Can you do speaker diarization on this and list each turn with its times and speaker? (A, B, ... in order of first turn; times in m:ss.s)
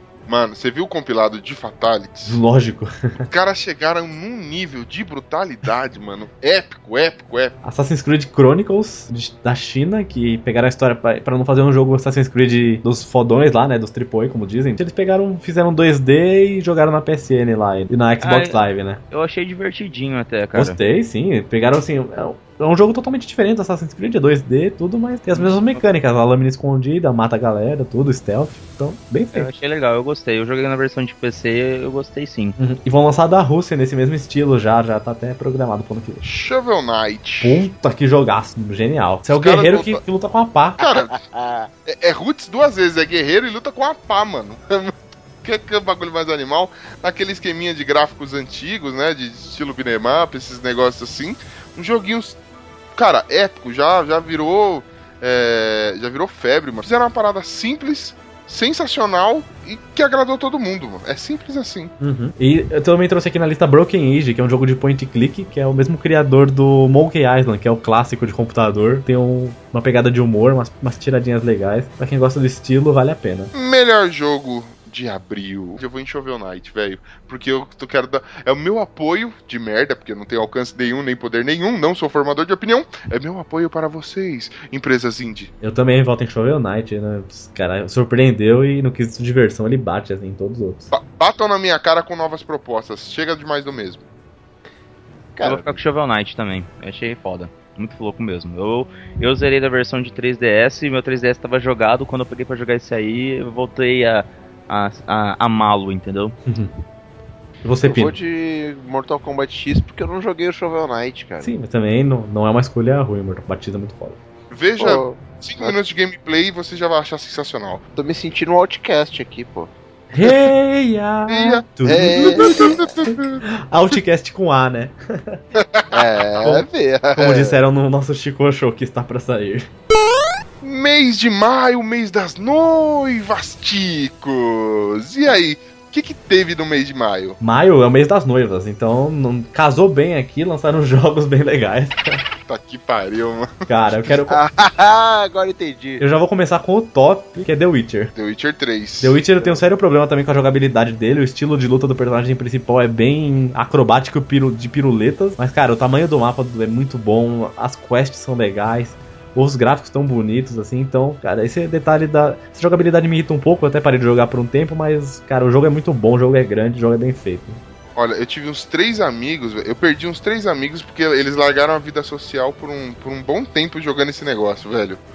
0:00.3-0:02.4 A
0:02.2-0:03.3 B
0:03.3-0:07.6 A
0:07.6-0:19.0 B
0:18.2-0:20.8 C
0:20.5-0:29.5 B
0:25.3-0:25.8 C
0:29.3-0:32.6 C
0:32.6-0:36.2 B
0:36.2-0:37.6 A
0:37.4-0:40.8 B
0:39.3-0:40.0 A
0:40.8-0:41.1 A
0:40.8-0:41.7 D
0:41.8-0:52.4 A
0:53.0-1:01.9 A
1:02.0-1:13.5 B
1:13.5-1:25.5 A
1:25.6-1:30.9 B
1:30.9-1:34.0 A
1:35.4-1:35.8 D
1:35.4-1:46.3 C
1:46.4-1:46.7 B
1:47.6-1:48.2 B
1:47.8-1:51.5 D
1:51.4-1:54.2 B
1:54.5-1:57.8 A
1:54.8-1:55.8 D
1:57.9-1:59.7 D
2:00.1-2:05.4 B
2:01.3-2:03.4 A
2:01.8-2:02.9 D
2:05.6-2:06.5 A
2:05.9-2:07.6 D
2:06.4-2:09.7 B
2:10.6-2:17.4 A
2:17.4-2:22.2 B
2:22.5-2:23.6 A
2:23.7-2:24.4 B
2:24.3-2:26.0 D
2:26.0-2:28.1 B
2:28.1-2:29.2 A
2:29.0-2:47.6 B
2:48.0-2:55.0 A